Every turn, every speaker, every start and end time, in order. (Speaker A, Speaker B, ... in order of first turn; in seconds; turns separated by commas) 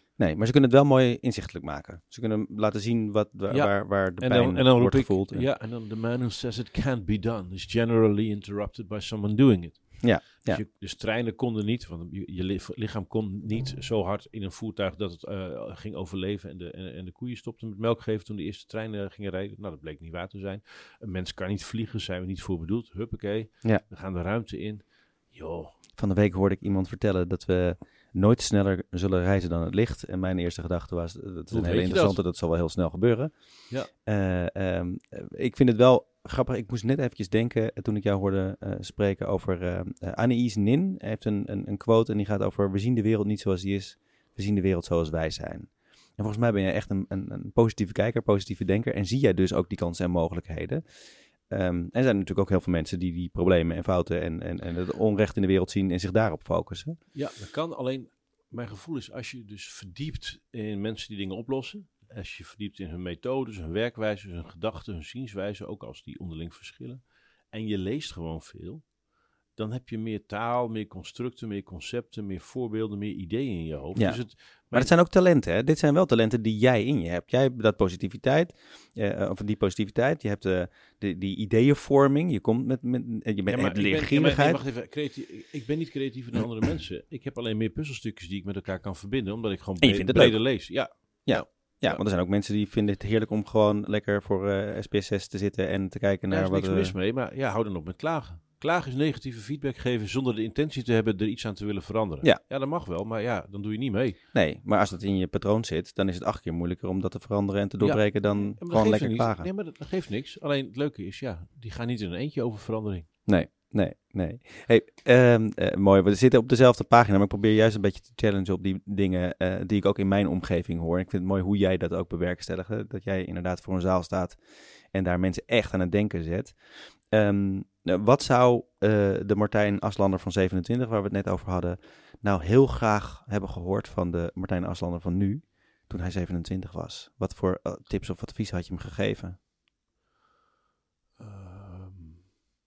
Speaker A: 0.2-5.5, Speaker B: 3.5-25.8, Speaker A: 10.0-10.6, Speaker A: 26.0-57.0, Speaker B: 31.5-32.2, Speaker B: 57.1-69.0, Speaker B: 69.5-74.9, Speaker A: 74.0-84.6, Speaker B: 83.5-92.0, Speaker A: 89.8-96.9, Speaker B: 96.3-104.2, Speaker A: 104.3-109.5, Speaker B: 107.8-113.1, Speaker A: 113.3-139.4, Speaker B: 141.2-142.3